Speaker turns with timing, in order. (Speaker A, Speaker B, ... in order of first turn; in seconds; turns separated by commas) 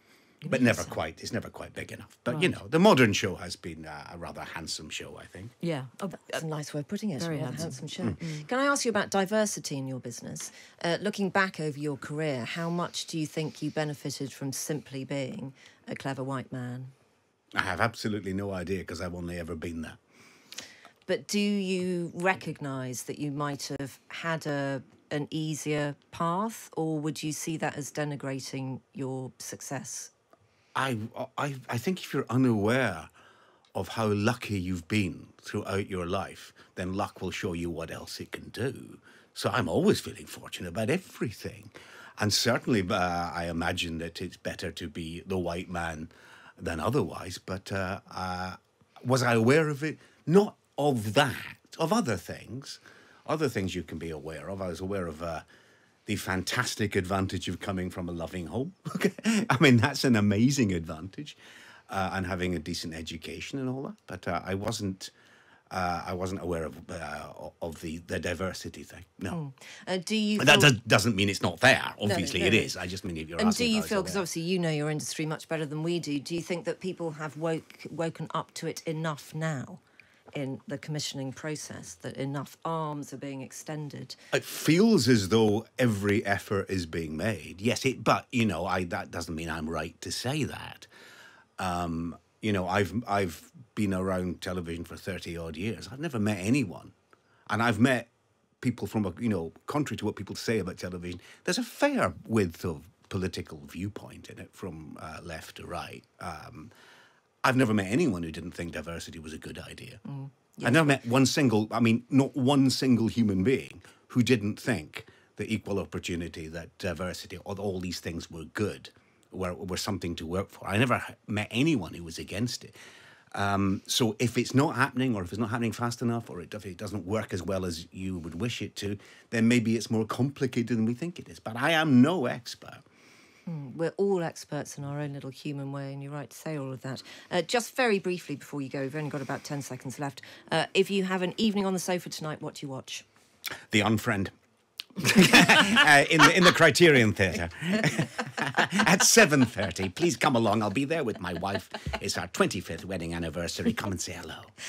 Speaker A: 0.4-0.9, Speaker B: 0.5-5.5, Speaker A: 2.3-2.5, Speaker A: 5.6-6.4, Speaker C: 6.3-16.9, Speaker A: 7.2-8.5, Speaker B: 17.5-20.0, Speaker C: 21.1-30.1, Speaker B: 30.7-33.1, Speaker B: 33.7-55.4, Speaker B: 56.1-61.4, Speaker B: 61.9-65.1, Speaker B: 65.7-69.4, Speaker C: 69.3-70.7, Speaker B: 70.4-74.2, Speaker C: 72.0-72.7, Speaker C: 73.4-79.8, Speaker C: 80.3-84.2, Speaker B: 84.3-90.9, Speaker B: 91.6-96.9, Speaker B: 97.5-98.1, Speaker B: 98.6-106.7, Speaker B: 107.4-110.0, Speaker C: 110.0-111.0, Speaker B: 110.6-122.7, Speaker B: 123.3-132.8, Speaker C: 133.5-143.0, Speaker B: 143.7-144.3, Speaker B: 145.0-154.5